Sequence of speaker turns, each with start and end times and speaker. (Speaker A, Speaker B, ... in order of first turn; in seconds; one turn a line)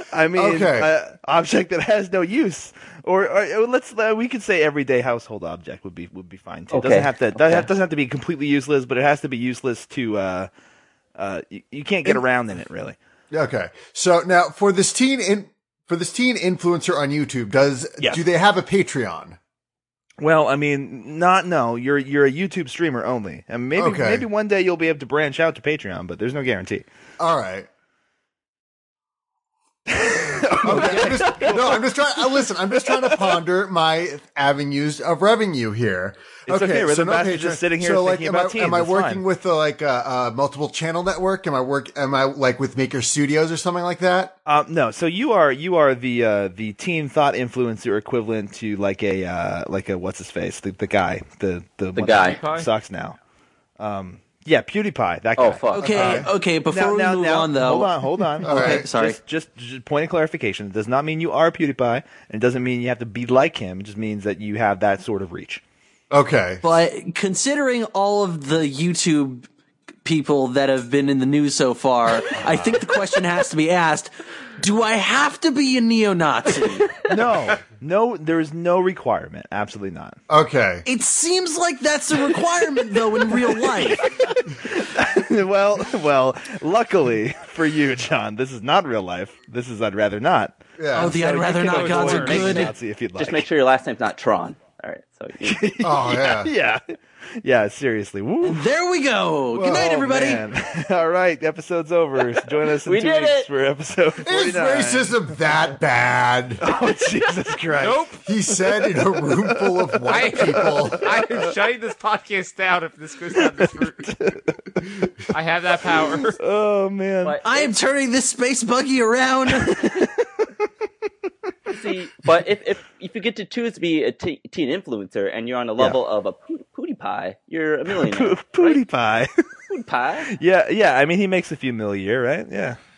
Speaker A: 0.1-10.5
Speaker B: 0.3-0.9
Speaker C: 6.7-7.7
Speaker A: 11.2-12.9
Speaker B: 13.3-19.4
Speaker A: 20.2-26.8
Speaker B: 23.8-24.3
Speaker B: 27.2-27.7
Speaker A: 29.9-31.9
Speaker B: 30.6-44.3
Speaker A: 32.9-33.3
Speaker A: 36.5-39.2
Speaker A: 44.5-53.2
Speaker C: 51.9-52.4
Speaker D: 52.2-52.7
Speaker A: 53.8-55.6
Speaker C: 55.4-56.2
Speaker E: 55.8-59.2
Speaker B: 55.8-56.3
Speaker A: 56.7-65.6
Speaker B: 58.4-58.9
Speaker B: 66.1-66.6
Speaker E: 66.6-69.5
Speaker E: 70.0-76.9
Speaker A: 77.0-80.2
Speaker B: 80.3-80.8
Speaker E: 80.9-84.0
Speaker A: 83.3-93.4
Speaker B: 90.8-91.1
Speaker E: 90.9-92.7
Speaker D: 91.7-92.5
Speaker C: 92.3-95.7
Speaker A: 95.4-96.8
Speaker B: 95.8-96.5
Speaker A: 97.4-98.6
Speaker E: 98.4-100.4
Speaker A: 99.6-105.2
Speaker C: 102.8-103.5
Speaker B: 104.2-106.6
Speaker A: 106.6-108.1
Speaker D: 107.8-108.2
Speaker B: 108.2-111.1
Speaker A: 109.3-111.5
Speaker D: 110.1-114.1
Speaker A: 113.3-115.1
Speaker D: 115.3-116.4
Speaker A: 116.4-117.4
Speaker C: 117.2-117.7
Speaker E: 117.4-120.1
Speaker A: 119.5-120.5
Speaker C: 121.7-128.8
Speaker A: 127.9-129.3
Speaker C: 129.7-130.3
Speaker A: 130.3-132.8